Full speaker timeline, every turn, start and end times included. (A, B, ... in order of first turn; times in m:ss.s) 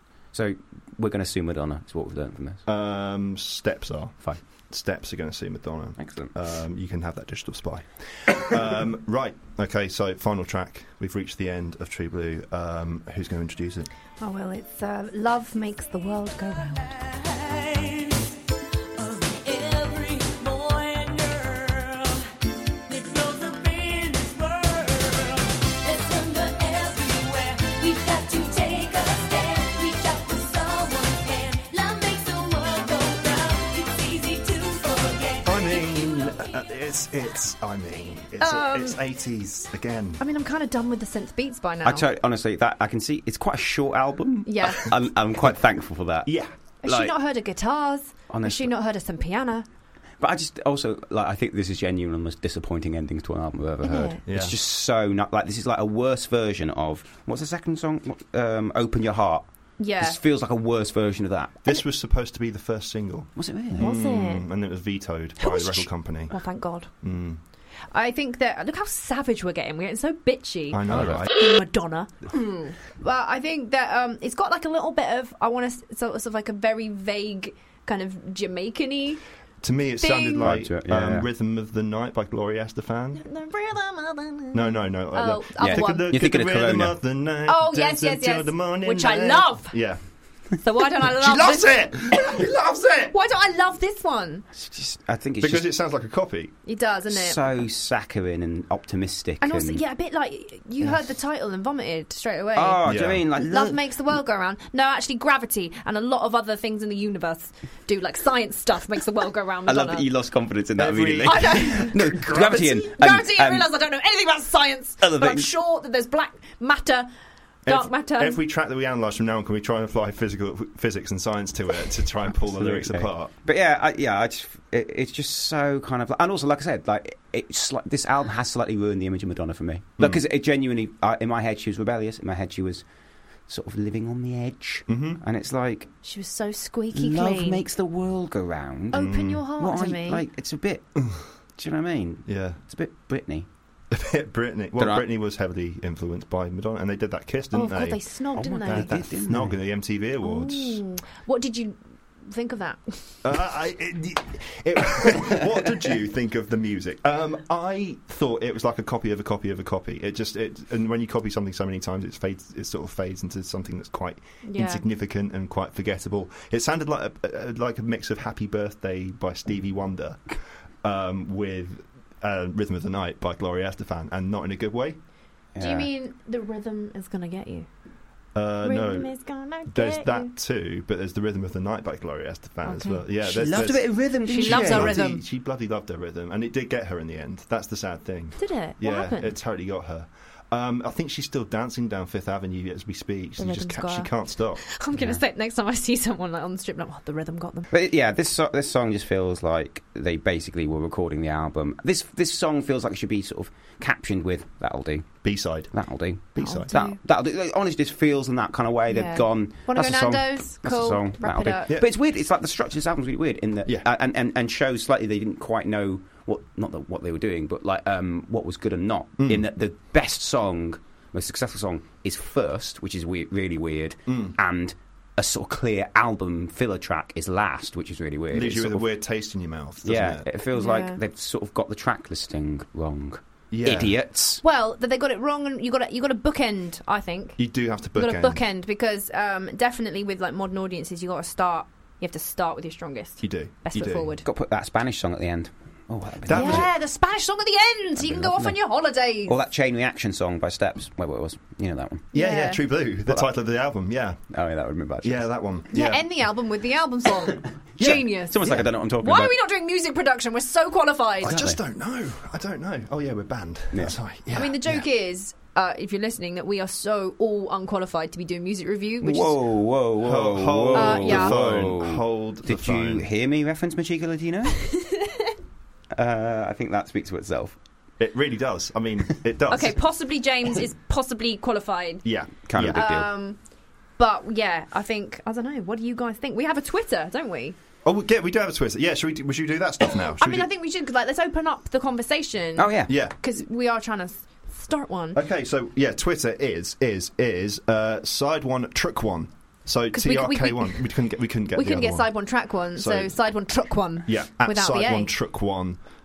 0:00.3-0:02.6 A
0:02.7-0:13.9 B
0:06.0-0:06.3 A
0:14.2-0:16.9 C
0:16.9-0:18.4 D
0:19.0-0:22.3 D
0:22.9-0:36.6 D
0:35.4-0:40.2 B
0:38.4-0:39.0 C
0:40.2-0:42.1 C
0:41.8-0:46.3 A
0:44.5-0:44.9 C
0:46.3-0:46.5 B
0:46.8-0:49.7 C
0:46.8-0:47.1 A
0:48.3-0:48.7 A
0:50.2-0:59.5 A
0:53.8-0:54.2 C
0:54.3-0:54.6 B
0:59.8-1:00.2 C
1:00.0-1:01.6 A
1:01.6-1:06.4 B
1:03.4-1:03.9 A
1:03.8-1:04.4 C
1:05.4-1:06.9 C
1:07.0-1:07.4 B
1:07.9-1:19.2 C
1:10.7-1:11.3 B
1:10.9-1:11.3 A
1:19.6-1:23.2 B
1:20.0-1:20.5 C
1:20.4-1:21.3 A
1:23.2-1:26.1 C
1:24.5-1:30.0 B
1:25.6-1:27.0 A
1:27.5-1:29.8 C
1:30.6-1:31.9 C
1:31.1-1:33.1 B
1:33.1-1:34.5 C
1:34.6-1:35.7 A
1:35.4-1:36.5 B
1:36.6-1:37.5 C
1:37.1-1:39.8 A
1:39.4-1:42.8 C
1:42.6-1:43.8 A
1:42.8-1:43.2 B
1:43.4-1:50.1 C
1:49.7-1:53.7 A
1:50.8-1:52.8 B
1:51.2-1:57.1 C
1:55.0-1:55.5 A
1:57.7-1:58.4 C
1:57.7-2:03.3 B
2:02.5-2:12.8 A
2:13.5-2:15.9 A
2:14.9-2:15.2 B
2:16.0-2:17.6 C
2:16.9-2:20.9 A
2:18.9-2:20.2 C
2:19.0-2:19.4 B
2:21.0-2:21.3 B
2:21.6-2:23.5 A
2:22.3-2:22.6 B
2:23.9-2:28.0 B
2:24.8-2:25.0 A
2:27.5-2:29.0 C
2:28.3-2:29.6 A
2:28.6-2:30.8 B
2:30.2-2:33.2 C
2:33.2-2:55.0 B
2:44.4-2:44.8 C
2:55.6-2:55.9 A
2:55.6-2:57.7 C
2:58.4-3:14.6 B
2:58.6-3:00.3 C
3:02.6-3:03.0 C
3:03.2-3:05.0 A
3:04.3-3:05.2 C
3:08.4-3:09.3 C
3:13.4-3:17.7 C
3:14.9-3:15.2 A
3:17.7-3:48.9 A
3:25.2-3:26.7 B
3:26.4-3:27.0 C
3:28.9-3:31.7 C
3:39.2-3:39.5 B
3:44.1-3:44.4 B
3:48.3-3:50.3 B
3:49.8-3:54.4 A
3:50.5-3:51.0 C
3:53.5-3:54.0 B
3:54.4-4:04.2 C
3:57.4-3:58.4 B
4:03.2-4:04.1 B
4:04.2-4:06.7 A
4:06.2-4:06.7 B
4:06.3-4:09.4 C
4:08.0-4:08.6 A
4:09.2-4:12.1 A
4:12.1-4:12.6 C
4:12.1-4:14.2 B
4:14.3-4:15.9 A
4:15.0-4:16.1 B
4:15.7-4:21.5 C
4:17.8-4:18.1 B
4:17.8-4:19.4 A
4:21.2-4:24.9 B
4:21.3-4:21.6 A
4:24.3-4:29.4 C
4:29.0-4:34.6 A
4:30.0-4:33.1 B
4:30.7-4:31.4 C
4:35.9-4:37.6 A
4:38.0-4:39.8 B
4:39.5-4:42.1 C
4:42.0-4:42.8 B
4:42.5-4:43.1 A
4:42.7-4:43.4 C
4:44.0-4:47.6 C
4:47.8-4:50.5 B
4:50.2-4:55.2 C
4:52.6-4:52.9 A
4:52.9-4:53.2 B
4:55.2-5:02.1 B
4:59.9-5:01.0 C
5:01.5-5:05.1 C
5:02.8-5:03.1 B
5:04.1-5:05.8 B